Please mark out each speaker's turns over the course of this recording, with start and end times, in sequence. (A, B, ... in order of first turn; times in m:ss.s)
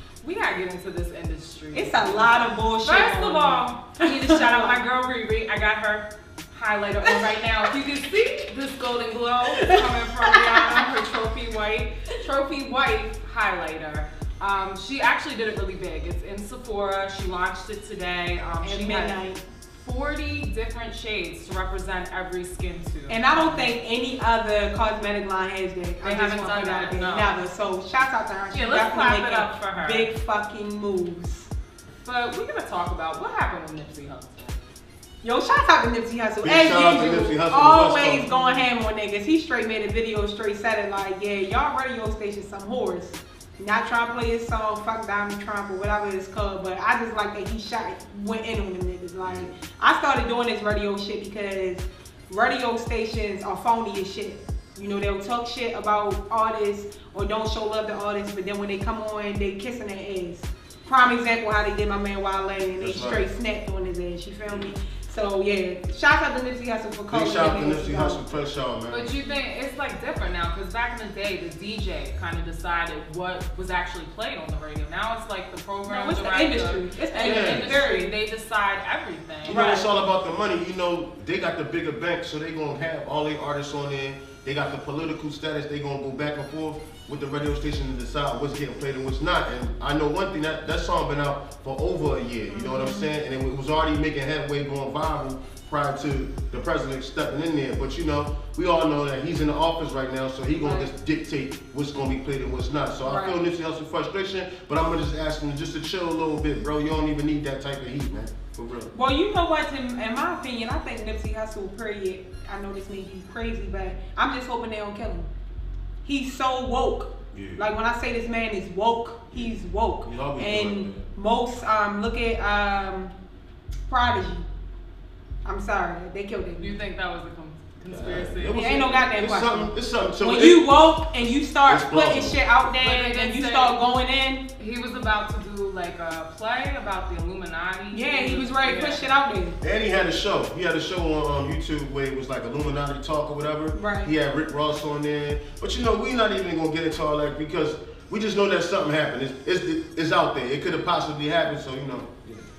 0:00.2-0:19.2 A
0:01.7-0:04.8 B
0:07.0-0:07.4 B
0:09.5-0:10.8 B
0:18.6-0:19.4 B
0:19.8-0:23.7 A
0:23.1-0:31.5 B
0:26.0-0:27.4 A
0:28.5-0:30.1 A
0:32.0-0:34.6 A
0:35.2-1:08.2 B
0:36.4-0:38.3 C
0:38.3-0:38.6 A
0:49.2-0:49.5 C
1:02.8-1:03.2 C
1:07.1-1:09.1 C
1:08.9-1:19.8 A
1:15.9-1:18.1 B
1:17.2-1:17.7 C
1:19.4-1:48.9 C
1:19.5-1:19.8 B
1:32.5-1:33.1 B
1:40.6-1:40.9 B
1:43.0-1:43.4 B
1:48.9-1:55.3 B
1:56.0-2:03.1 B
1:57.3-1:57.7 C
2:00.0-2:01.0 C
2:03.9-2:04.4 B
2:05.4-2:06.8 B
2:06.6-2:08.9 A
2:07.8-2:10.7 C
2:08.5-2:14.4 B
2:11.6-2:12.4 C
2:12.8-2:13.8 A
2:14.6-2:19.0 A
2:17.9-2:19.6 B
2:19.6-2:32.5 C
2:23.7-2:24.1 B